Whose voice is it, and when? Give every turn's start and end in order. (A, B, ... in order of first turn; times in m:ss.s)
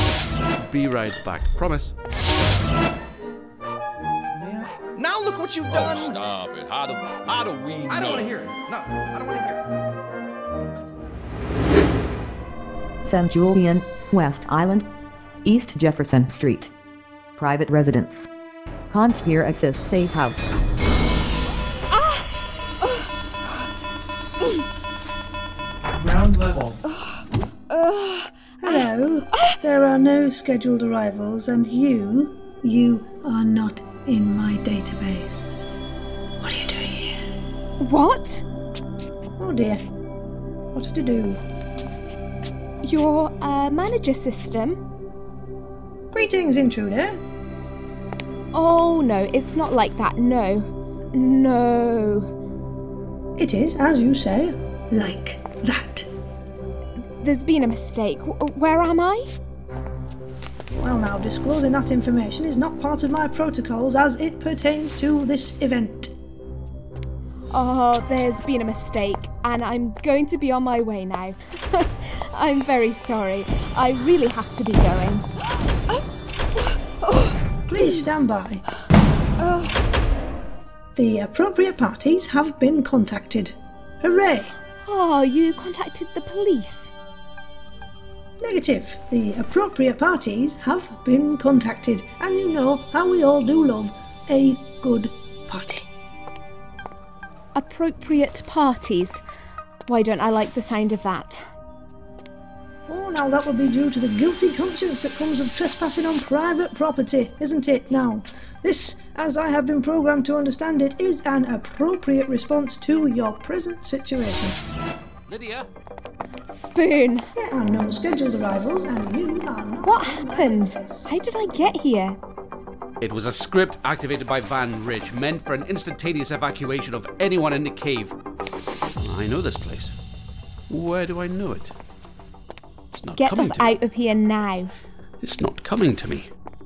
0:00.6-0:01.9 A
0:04.3-0:06.2 B
0:05.7-0:08.4 C
0:07.9-0:09.6 B
0:13.0-0:14.9 D
0:15.4-0:16.7 D
0:17.4-0:18.3 D
0:18.9-0:20.6 D
0:21.9-0:22.2 E
0:27.7-0:29.6 E
0:28.6-0:35.6 F
0:36.4-0:37.1 F
0:37.8-0:38.4 E
0:39.4-0:39.8 F
0:40.7-0:41.4 F
0:42.8-0:44.8 E
0:46.1-0:47.2 F
0:48.5-0:52.3 E
0:53.4-0:56.1 F
0:57.2-0:59.3 E
1:00.8-1:06.1 F
1:07.5-1:15.3 E
1:16.6-1:17.3 E
1:17.7-1:18.6 F
1:19.4-1:19.7 E
1:21.0-1:24.6 F
1:24.8-1:26.9 E
1:28.4-1:35.9 F
1:37.6-1:39.2 E
1:39.9-1:41.5 E
1:42.9-1:54.6 F
1:55.3-1:55.7 A
1:56.5-1:57.3 E
1:57.4-2:01.1 F
1:59.8-2:02.2 E
2:03.0-2:08.2 A
2:09.0-2:09.9 A
2:10.7-2:11.7 A
2:12.9-2:13.8 A
2:13.2-2:14.7 E
2:15.2-2:16.3 A